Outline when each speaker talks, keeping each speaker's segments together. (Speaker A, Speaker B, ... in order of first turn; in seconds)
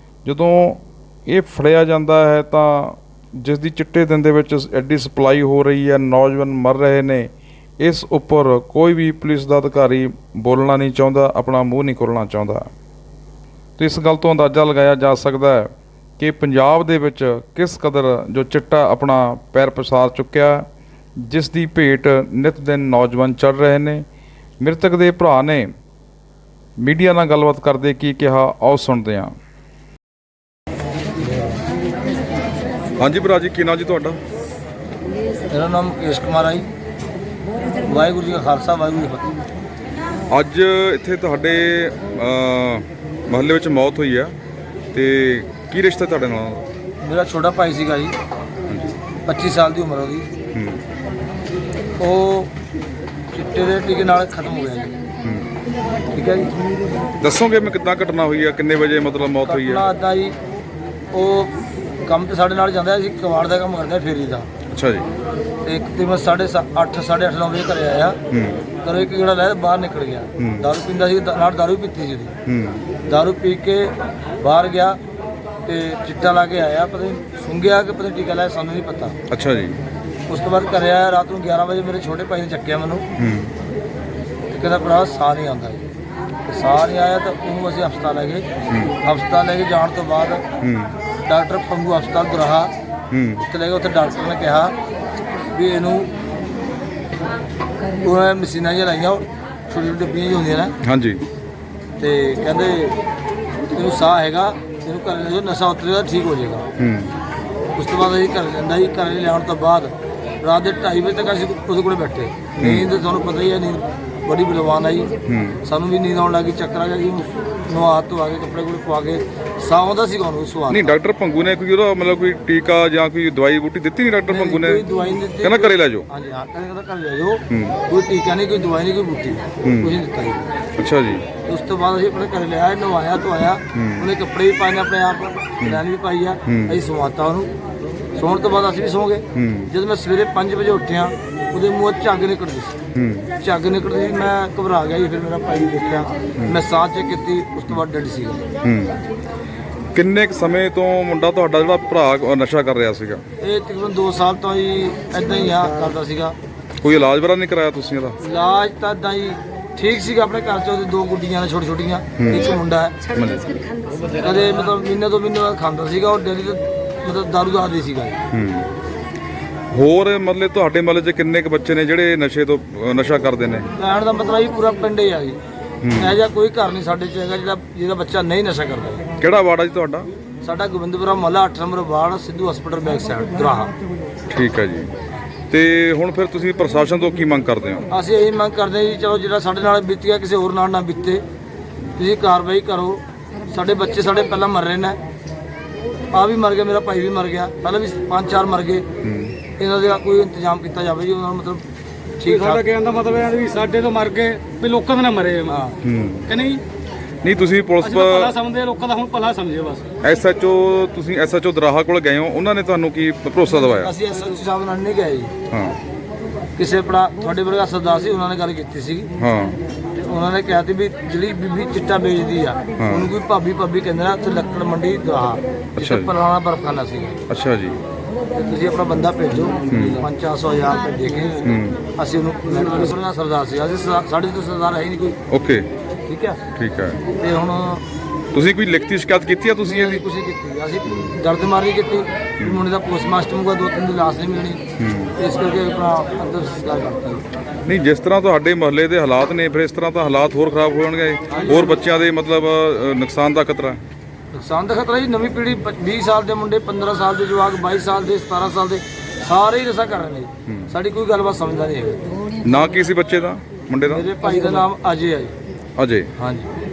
Speaker A: 0.2-12.7, 13.8-20.7, 21.2-24.1, 24.6-25.7, 26.8-29.3, 33.0-34.2, 40.3-44.4, 44.9-46.6, 50.5-50.8, 55.2-55.5, 57.2-59.9, 64.7-65.1, 68.3-68.6, 70.4-70.7, 72.5-72.9, 79.3-79.8, 83.2-83.5, 90.6-91.0, 93.1-93.5, 100.8-101.2, 106.8-107.1, 112.6-112.9, 115.2-115.6, 120.7-124.8, 125.4-126.1, 127.5-127.8, 129.6-129.9, 130.8-131.3, 133.7-134.1, 136.5-136.8, 139.3-139.7, 142.9-143.3, 148.6-149.0, 149.9-153.2, 156.8-158.2, 162.2-162.6, 163.1-163.5, 168.3-168.7, 169.7-173.7, 175.8-176.2, 179.2-180.1, 184.3-184.9, 185.5-187.9, 199.0-199.4, 205.8-206.3, 207.2-208.3, 210.0-213.9, 215.5-215.8, 219.2-219.6, 222.8-223.1, 225.8-226.1, 227.3-227.8, 229.7-230.1, 231.4-231.8, 235.3-235.7, 236.5-237.0, 238.3-240.0, 244.8-245.2, 247.7-253.8, 260.5-260.7, 262.4-264.1, 265.8-266.1
Speaker B: 35.5-36.7, 37.8-39.4, 47.0-48.2, 49.2-50.3, 52.0-52.5, 53.3-55.0, 56.1-56.6, 59.5-60.4, 61.1-61.5, 62.0-64.5, 65.6-68.2, 68.8-72.3, 73.0-75.0, 75.7-79.2, 80.3-83.0, 84.5-85.8, 86.5-90.4, 91.2-92.7, 93.4-94.8, 95.5-96.1, 98.0-100.8, 102.0-103.0, 103.7-106.7, 107.8-121.0, 124.3-130.4, 131.4-137.5, 138.2-142.8, 143.4-148.4, 153.4-156.4, 158.2-163.0, 164.1-168.2, 173.8-175.4, 176.0-179.0, 180.4-183.7, 187.9-191.2, 191.9-195.0, 196.1-198.9, 199.6-201.6, 202.2-202.7, 205.5-205.8, 213.7-215.3, 216.6-219.1, 219.9-227.2, 228.3-235.2, 236.1-236.4, 237.1-237.8, 239.7-244.6, 245.2-247.2, 254.3-262.0, 263.9-265.4, 266.2-266.5
Speaker C: 202.3-205.6, 206.3-206.6, 207.8-209.9